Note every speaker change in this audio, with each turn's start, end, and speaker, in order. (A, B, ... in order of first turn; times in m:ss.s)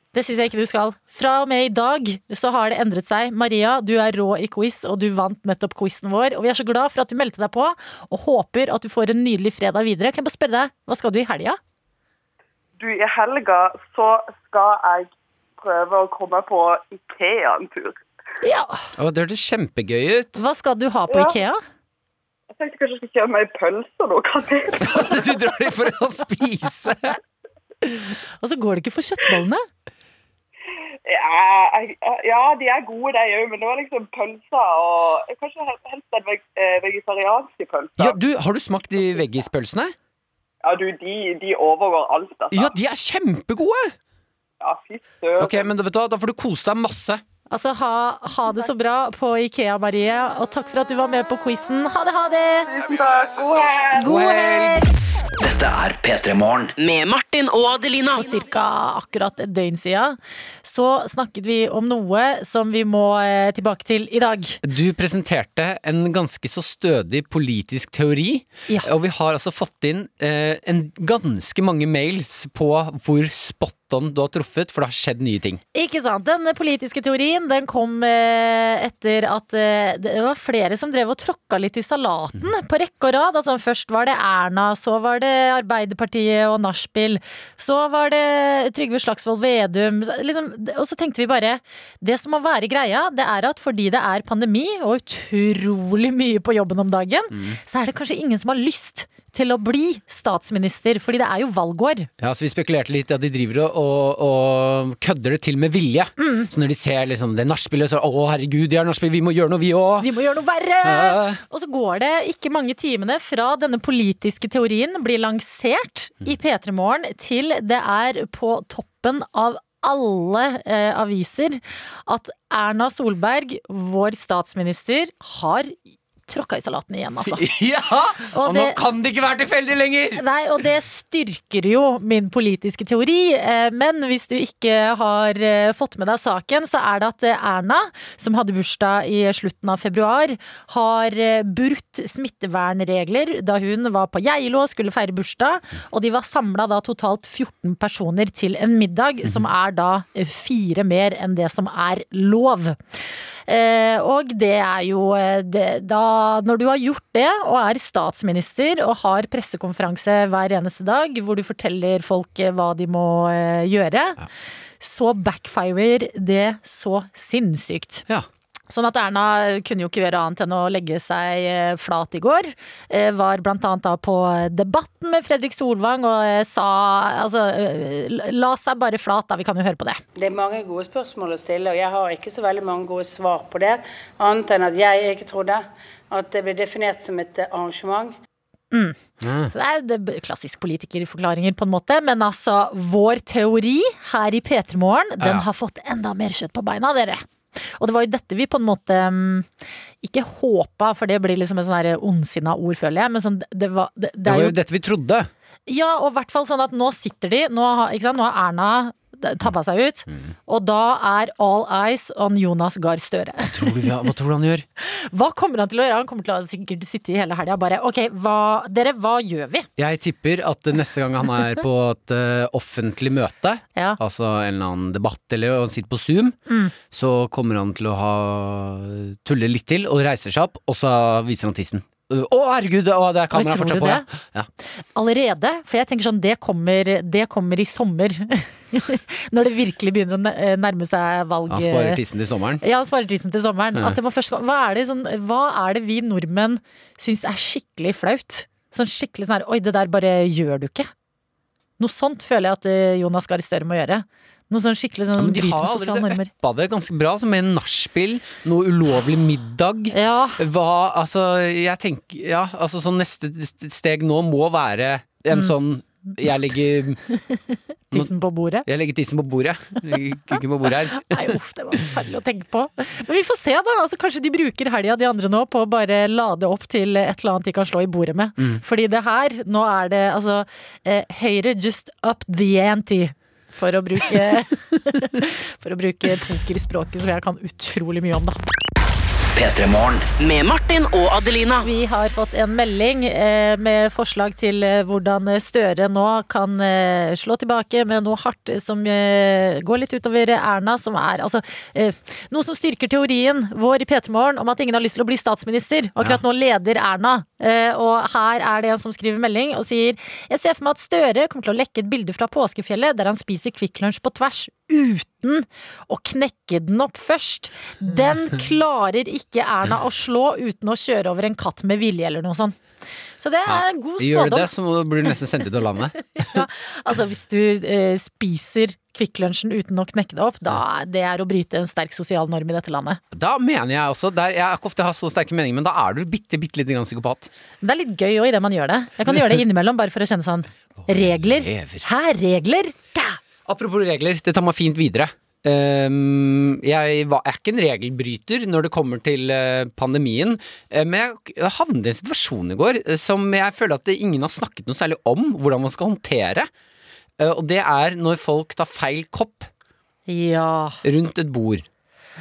0:00.1-0:11.6 A
0:12.8-0:18.0 B
0:18.4-0:18.8 A
0:19.0-0:20.4 C
0:20.4-0:21.6 A
0:21.1-0:21.4 B
0:22.5-0:25.2 B
0:24.8-0:27.2 C
0:28.4-0:29.6 A
0:31.0-0:38.2 B
0:38.0-0:39.9 C
0:40.6-0:42.7 B
0:42.5-0:43.9 C
0:44.6-0:45.7 B
0:45.4-0:47.2 C
0:47.5-0:52.7 A
0:52.7-0:54.1 B
0:54.0-0:54.9 A
0:54.0-0:54.9 C
0:55.4-0:56.7 D
0:56.8-0:58.3 E
0:58.1-1:04.6 A
1:04.6-1:15.6 C
1:15.7-1:42.1 A
1:37.3-1:37.6 C
1:42.2-1:50.1 C
1:46.2-1:46.5 A
1:50.0-2:07.5 A
1:50.8-1:51.4 C
2:07.3-2:10.2 C
2:08.3-2:08.8 A
2:10.2-2:32.8 A
2:33.5-2:44.2 A
2:44.8-2:48.0 A
2:48.7-3:00.0 A
3:00.2-3:08.1 F
3:08.7-3:19.5 A
3:09.2-3:09.5 C
3:15.2-3:15.4 C
3:20.0-3:24.6 A
3:24.2-3:25.3 C
3:25.7-3:33.9 A
3:33.5-3:34.6 C
3:34.8-3:39.7 A
3:39.8-3:46.4 C
3:46.5-3:46.7 A
3:46.9-3:54.5 C
3:53.3-3:54.0 A
3:54.9-4:02.0 A
4:01.5-4:02.6 C
4:02.6-4:10.9 A
4:11.8-4:16.3 A
4:15.2-4:27.0 C
4:19.9-4:20.4 A
4:27.1-4:27.4 A
4:27.9-4:28.7 A
4:28.6-4:31.3 C
4:30.9-4:48.4 A
4:49.3-4:50.1 D
4:50.2-4:51.6 E
4:51.6-5:22.6 A
5:23.2-5:24.5 A
5:23.4-5:26.5 C
5:26.2-5:33.0 A
5:33.1-5:37.3 C
5:37.6-5:43.2 A
5:40.8-5:41.9 C
5:43.5-5:56.5 C
5:57.2-5:59.5 C
6:00.1-6:00.8 A
6:00.8-6:01.6 C